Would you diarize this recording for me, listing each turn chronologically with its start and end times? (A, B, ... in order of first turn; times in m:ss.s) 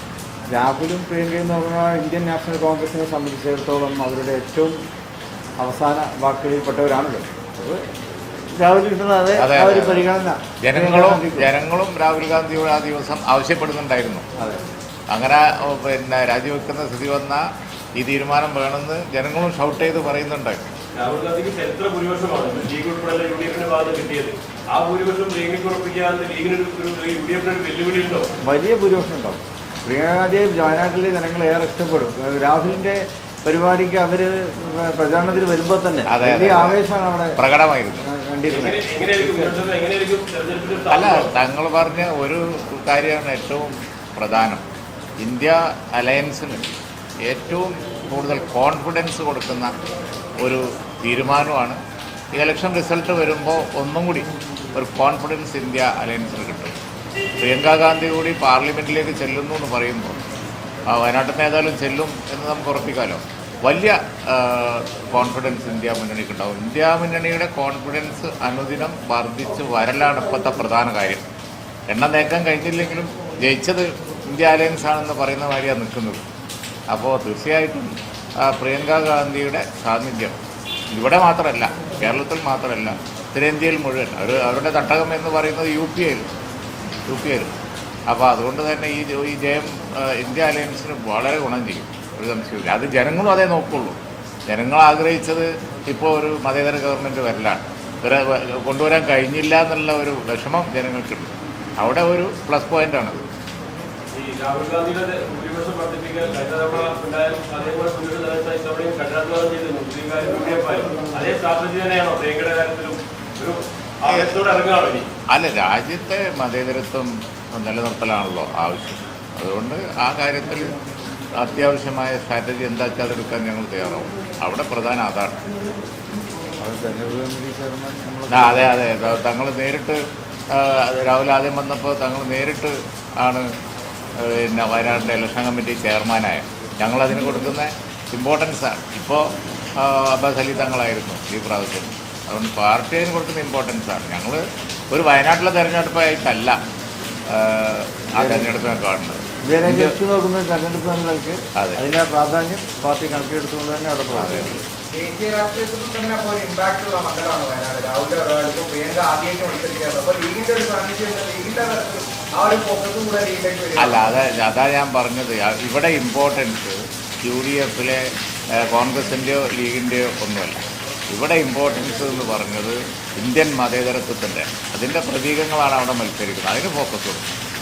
0:00.5-0:04.8 A
0:05.6-0:07.8 A
0:08.5-0:11.5 A
0:09.4-0:10.0 B
0:10.6-0:14.2 B
0:15.1-0:17.4 B
0:18.0-0:20.6 B
0:20.9-0:28.3 C
0:28.4-0:37.4 A
0:36.1-0:36.8 B
0:37.4-0:38.0 B
0:38.0-0:39.6 A
0:38.5-0:41.3 C
0:40.9-0:44.6 B
0:45.2-0:46.7 B
0:47.2-0:49.8 B
0:50.4-0:51.8 B
0:52.3-0:56.7 B
0:57.4-1:00.2 B
1:00.9-1:11.2 B
1:11.9-1:16.2 B
1:16.9-1:20.4 B
1:20.9-1:26.2 B
1:27.0-1:27.5 B
1:28.1-1:43.2 B
1:44.1-1:55.1 C
1:55.3-2:00.8 B
2:01.4-2:05.4 B
2:06.6-2:08.8 A
2:08.3-2:10.0 B
2:10.5-2:13.4 B
2:14.2-2:19.2 B
2:19.8-2:24.4 B
2:24.9-2:26.6 B
2:27.3-2:30.0 B
2:28.2-2:28.6 A
2:29.5-2:34.6 A
2:31.6-2:31.8 B
2:34.1-2:34.6 B
2:34.9-2:44.1 D
2:43.8-2:48.0 B
2:48.6-2:57.3 B